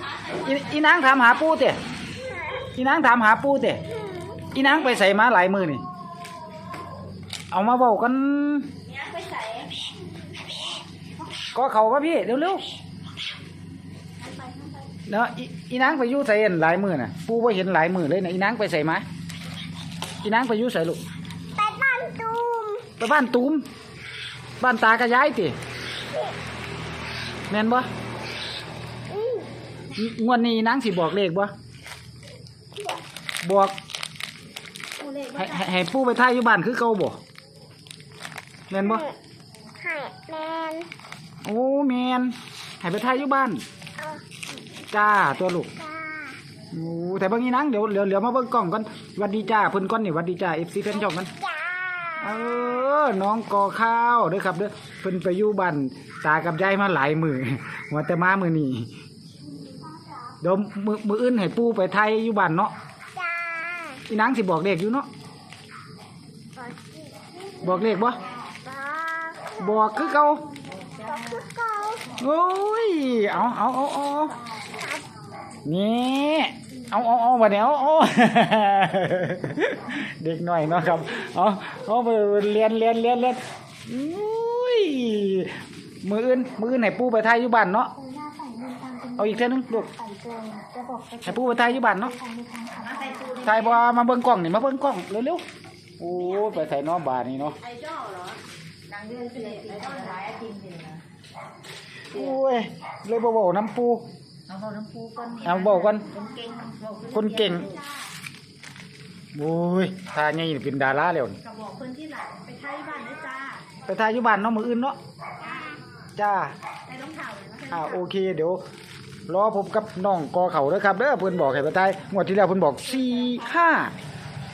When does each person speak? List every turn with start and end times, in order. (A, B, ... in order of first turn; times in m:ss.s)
0:00.3-0:01.8 A
0:02.7-0:03.8 A
0:04.4-0:05.9 A
0:07.5-0:08.7 A
0:11.5-0:12.7 A
0:15.1-0:19.1 A
0:20.2-0:21.0 A
0:21.6-0:22.9 B
0:22.9-0:23.7 A
0:24.6-0:25.6 A
0:27.5-0:27.9 A
0:29.1-0:29.4 B
0:29.9-0:31.5 A
0:33.4-0:33.8 A
0:35.2-0:37.2 A
0:38.7-0:39.1 A
0:39.8-0:40.9 B
0:41.4-0:43.6 A
0:44.9-0:45.8 A
0:46.7-0:51.3 A
0:51.6-0:52.1 B
0:52.1-0:58.9 A
1:00.4-1:02.7 A
1:03.3-1:04.0 B
1:04.0-1:05.1 A
1:06.6-1:06.9 B
1:07.6-1:08.2 A
1:08.4-1:09.6 B
1:09.5-1:10.5 A
1:10.9-1:12.1 B
1:12.1-1:14.4 A
1:15.6-1:28.0 A
1:28.0-1:29.3 B
1:29.2-1:29.9 A
1:29.8-1:31.4 B
1:31.2-1:32.2 A
1:32.1-1:33.4 B
1:32.8-1:33.6 C
1:33.4-1:35.4 A
1:36.0-1:37.6 A
1:37.6-1:38.4 C
1:38.9-1:41.0 C
1:42.1-1:44.1 A
1:44.5-1:48.0 C
1:45.4-1:46.1 A
1:46.2-1:46.6 B
1:47.1-1:47.8 A
1:49.3-1:51.4 A
1:51.4-1:53.7 C
1:53.8-1:55.0 A
1:56.2-1:56.6 A
1:56.9-1:57.8 C
1:57.7-1:58.6 A
1:59.3-2:03.9 A